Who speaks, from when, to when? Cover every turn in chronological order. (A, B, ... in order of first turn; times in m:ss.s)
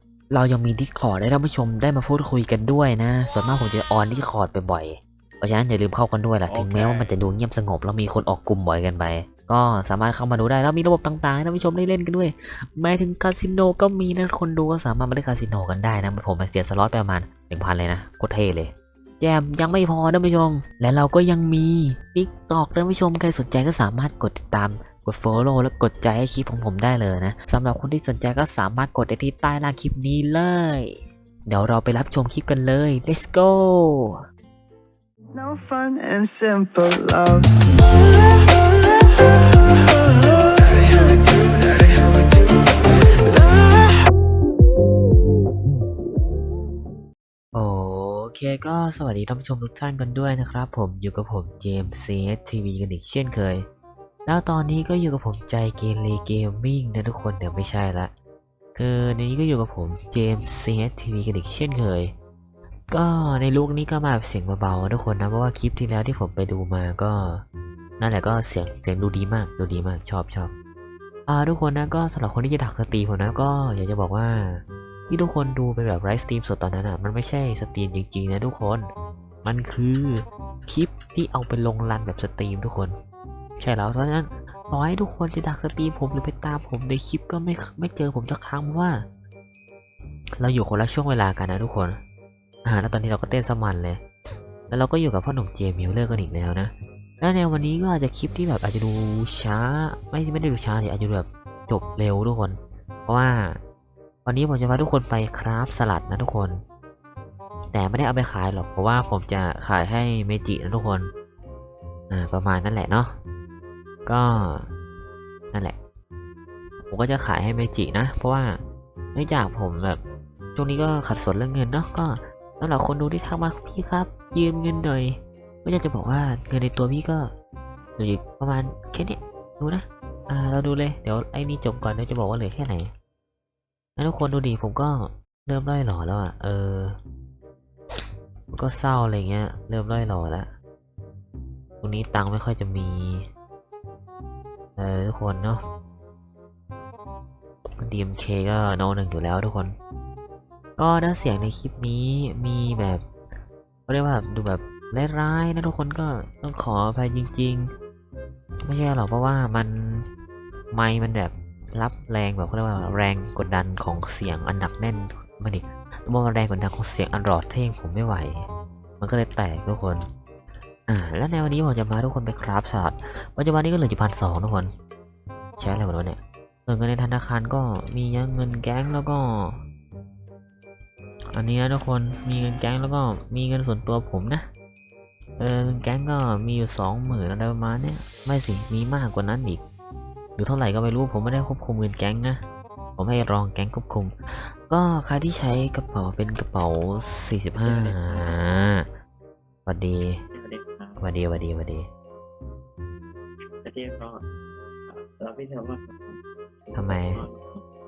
0:00.3-0:34.1 A
0:35.3-0:44.0 B
0:47.5-0:53.7 A
0:54.2-0:58.1 A
0:58.7-1:02.1 A
1:02.9-1:07.4 A
1:08.0-1:10.5 A
1:11.3-1:18.9 A
1:19.4-1:23.0 A
1:23.6-1:29.0 A
1:30.4-1:32.0 A
1:32.6-1:34.0 A
1:34.7-1:43.6 A
1:44.2-1:46.6 A
1:47.7-1:51.1 A
1:52.1-1:53.1 A
1:54.0-1:54.7 A
1:56.9-1:58.6 A
1:59.1-2:00.0 A
2:00.5-2:07.3 A
2:08.0-2:12.9 A
2:14.0-2:17.0 A
2:18.5-2:20.5 A
2:21.8-2:23.3 A
2:24.8-2:25.6 A
2:27.8-2:29.8 A
2:30.8-2:33.0 A
2:33.9-2:37.7 A
2:38.6-2:40.0 A
2:40.7-2:48.5 A
2:49.0-2:50.1 A
2:50.9-2:54.7 A
2:55.6-2:59.6 A
3:01.3-3:04.4 A
3:05.4-3:09.6 A
3:10.4-3:12.4 A
3:13.0-3:18.9 A
3:17.6-3:18.3 C
3:19.6-3:20.2 A
3:20.3-3:21.0 C
3:21.0-3:21.9 A
3:23.6-3:24.2 C
3:24.9-3:27.6 C
3:26.7-3:27.2 A